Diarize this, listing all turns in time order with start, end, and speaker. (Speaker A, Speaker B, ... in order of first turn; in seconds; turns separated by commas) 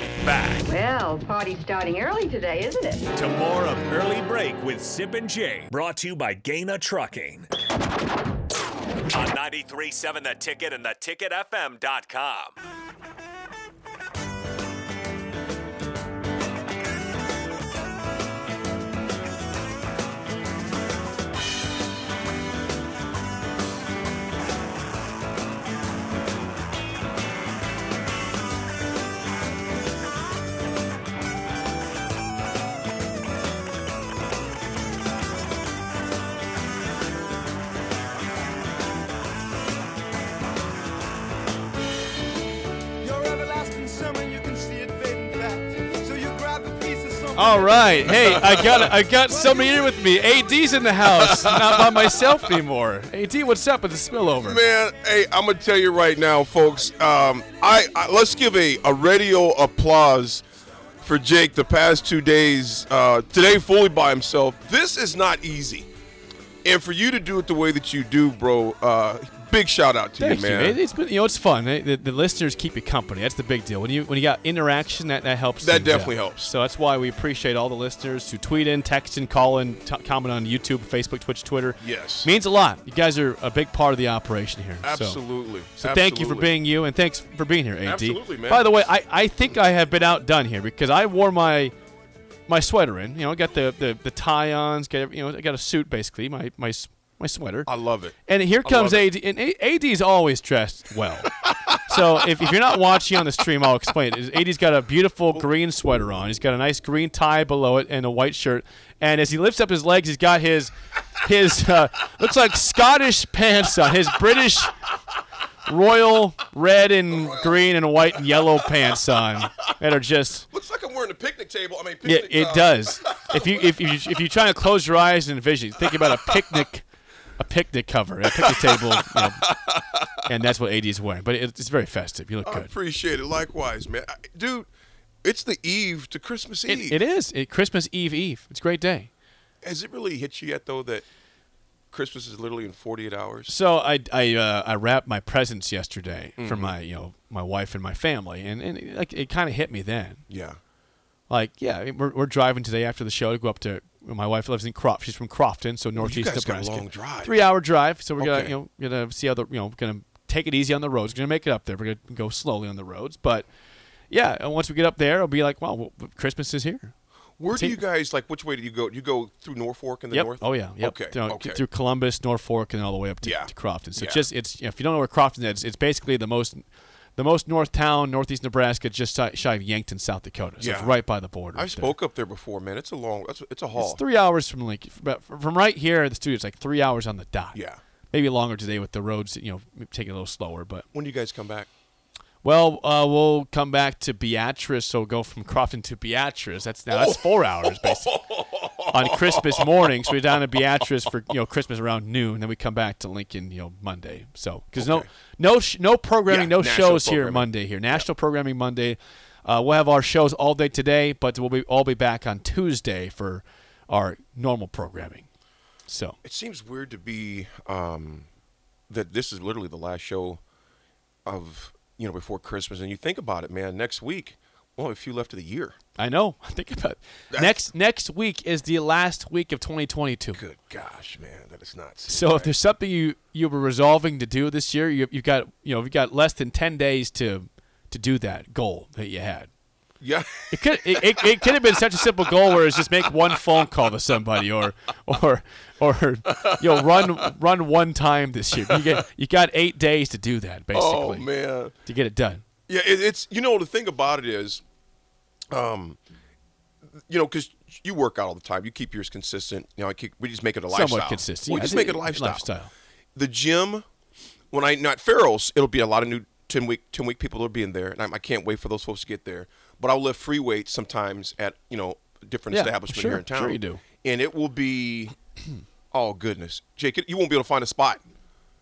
Speaker A: 0.2-0.7, Speaker B: 0.7-3.0, Speaker A: 3.1-7.5, Speaker A: 9.1-12.6, Speaker C: 43.0-47.8, Speaker D: 47.3-54.6, Speaker E: 48.1-48.9, Speaker E: 51.1-52.3, Speaker E: 54.4-60.4, Speaker E: 61.0-65.9, Speaker E: 66.6-70.8, Speaker D: 70.2-85.2, Speaker E: 75.6-76.5, Speaker E: 81.8-82.3, Speaker E: 84.8-86.5, Speaker D: 85.8-91.7, Speaker E: 87.8-88.7, Speaker D: 92.5-97.7, Speaker E: 97.7-99.1, Speaker D: 98.3-101.3, Speaker D: 101.8-114.8, Speaker D: 115.6-120.5, Speaker E: 117.1-117.6, Speaker E: 120.5-123.7, Speaker D: 122.0-126.8, Speaker E: 125.8-126.6, Speaker D: 127.4-129.4, Speaker E: 128.3-130.2, Speaker D: 130.2-132.7, Speaker E: 132.4-134.7, Speaker E: 135.2-137.0, Speaker D: 136.7-139.1, Speaker E: 139.6-141.0, Speaker E: 141.9-143.5, Speaker D: 143.5-150.2, Speaker E: 146.4-146.8, Speaker E: 150.3-150.6, Speaker D: 151.3-163.4, Speaker E: 155.9-157.4, Speaker E: 158.2-158.5, Speaker D: 164.1-166.9, Speaker E: 167.4-171.6, Speaker D: 167.5-167.8, Speaker D: 170.1-176.6, Speaker E: 173.2-174.3, Speaker D: 177.2-181.9, Speaker E: 180.6-181.0, Speaker E: 181.5-184.0, Speaker D: 183.8-187.6, Speaker E: 187.5-187.8, Speaker D: 188.1-190.9, Speaker E: 190.9-191.7, Speaker D: 192.4-198.1, Speaker E: 196.9-199.7, Speaker D: 198.9-215.2, Speaker E: 204.8-205.1, Speaker E: 206.3-208.1, Speaker D: 215.9-216.2, Speaker E: 216.2-218.3, Speaker E: 218.9-220.4, Speaker E: 221.2-225.8, Speaker D: 226.0-230.4, Speaker E: 227.3-227.6, Speaker E: 230.3-232.5, Speaker D: 232.1-239.5, Speaker E: 240.0-241.8, Speaker D: 240.5-251.3, Speaker E: 246.3-247.3, Speaker E: 248.6-249.0, Speaker E: 250.7-251.7, Speaker D: 251.8-252.4, Speaker E: 252.7-254.6, Speaker E: 255.5-256.0, Speaker E: 256.9-262.5, Speaker D: 260.7-262.7, Speaker E: 263.1-263.8, Speaker E: 264.5-275.1, Speaker D: 272.5-273.8, Speaker E: 275.9-278.0